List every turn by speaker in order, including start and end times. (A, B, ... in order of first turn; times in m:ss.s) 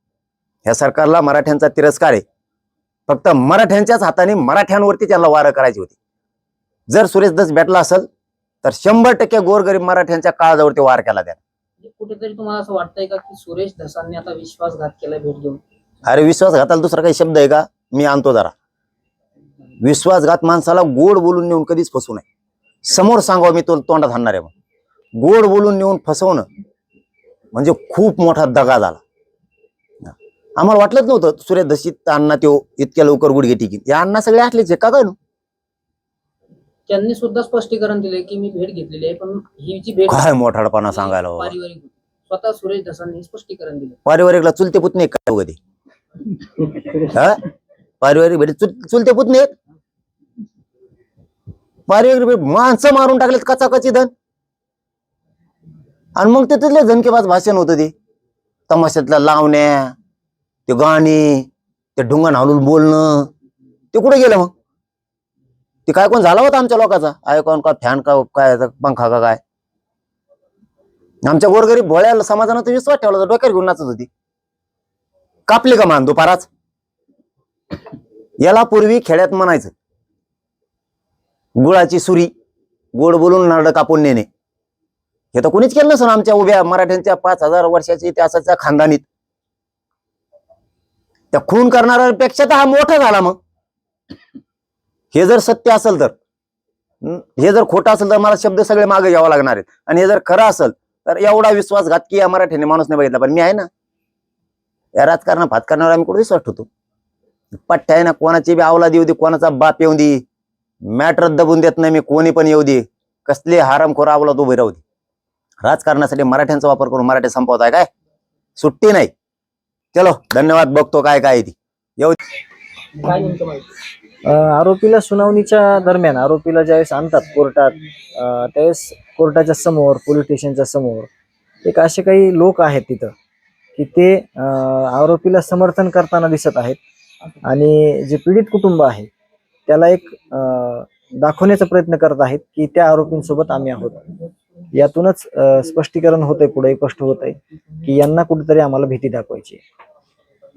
0:00.6-0:02.2 A
0:03.1-0:05.9 A
0:06.9-0:08.1 A
0:08.6-0:11.4 A
0:11.8-0:15.6 B
0:16.0-0:18.5 A
0:19.8-0:22.2 A
0:22.8-0:24.5 A
0:25.2-0:26.5 A
0:27.5-0:29.0 A
0:30.0-0:35.1 A
0:36.9-0:40.3 B
0:40.1-0:41.5 A
0:40.9-0:44.0 B
0:44.0-0:45.6 A
0:47.1-0:47.4 A
0:48.0-0:49.5 A
0:51.9-0:54.1 A
0:56.2-0:57.9 A
0:58.7-0:59.9 A
1:00.7-1:03.3 A
1:03.9-1:04.5 A
1:05.8-1:09.4 A
1:11.2-1:14.1 A
1:15.5-1:16.5 A
1:18.4-1:19.7 A
1:21.6-1:22.3 A
1:22.9-1:24.3 A
1:25.3-1:29.0 A
1:31.3-1:33.4 A
1:35.1-1:36.1 A
1:37.0-1:43.7 A
1:44.9-1:46.7 A
1:47.7-1:50.2 A
1:50.8-1:54.8 A
1:55.6-1:57.9 A
1:58.6-1:59.1 A
1:59.9-2:02.2 A
2:03.0-2:03.7 B
2:04.2-2:11.1 C
2:11.6-2:13.1 C
2:13.8-2:16.8 C
2:17.4-2:19.1 C
2:19.7-2:24.1 C
2:24.7-2:29.6 C